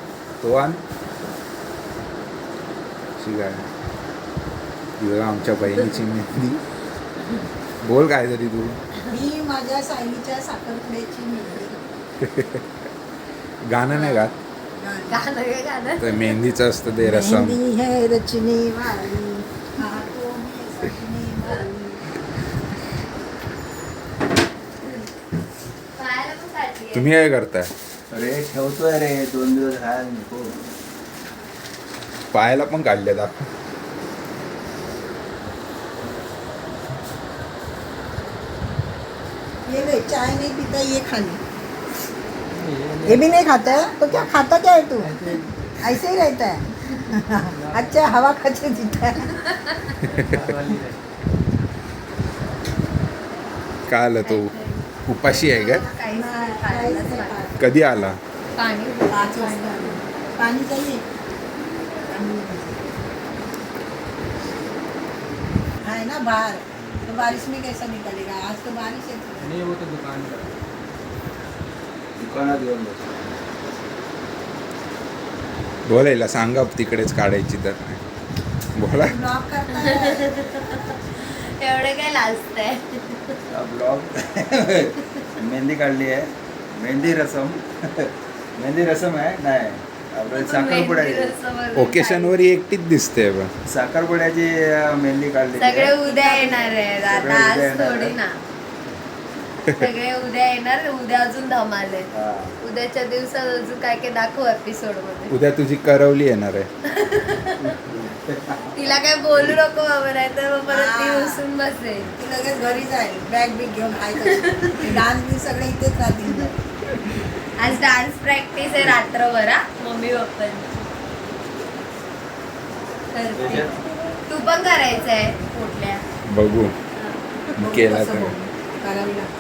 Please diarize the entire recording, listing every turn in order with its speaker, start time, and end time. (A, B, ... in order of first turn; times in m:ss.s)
0:00.4-0:00.8 A
0:03.2-0:03.6 A
0:05.0-0:06.6 A
0:07.8-0:08.8 A
0:09.1-0:11.8 B
0:12.2-0:12.7 A
0:13.6-0:14.3 A
0:13.9-0:14.3 C
0:14.8-0:15.3 B
0:15.1-0:16.3 C
0:16.0-0:17.6 A
0:17.0-0:22.0 B
0:26.0-0:27.2 C
0:26.9-0:27.7 A
0:28.1-0:30.5 D
0:32.3-0:33.5 A
0:39.7-0:41.4 B
0:42.5-0:43.4 E
0:43.0-0:45.2 B
0:45.0-0:45.5 E
0:45.8-0:49.4 B
0:47.6-0:47.9 E
0:49.5-0:50.0 C
0:50.0-0:50.5 A
0:50.2-0:51.0 E
0:53.9-0:54.5 A
0:54.2-0:57.4 C
0:55.1-0:55.8 A
0:56.0-0:57.6 B
0:57.6-0:58.2 A
0:58.6-1:00.0 C
0:59.1-1:01.0 B
1:02.1-1:02.8 B
1:05.8-1:09.6 B
1:09.4-1:10.5 E
1:12.2-1:13.1 D
1:15.8-1:18.0 A
1:18.8-1:19.2 A
1:19.0-1:20.3 B
1:19.7-1:23.4 C
1:23.5-1:31.4 D
1:30.3-1:32.4 C
1:31.8-1:33.5 A
1:33.7-1:36.0 D
1:35.6-1:38.4 C
1:36.0-1:36.8 B
1:37.0-1:38.2 D
1:39.7-1:42.1 C
1:42.1-1:42.5 D
1:42.6-1:45.3 C
1:45.3-1:46.7 A
1:46.9-1:47.7 C
1:47.6-1:48.9 D
1:48.8-1:52.1 C
1:50.7-1:51.4 B
1:52.2-1:56.6 B
1:54.2-1:54.9 C
1:57.6-2:00.8 C
2:03.1-2:03.7 C
2:03.3-2:03.9 D
2:04.3-2:06.0 C
2:06.3-2:06.8 A
2:07.0-2:07.5 C
2:07.6-2:09.3 B
2:07.6-2:08.4 A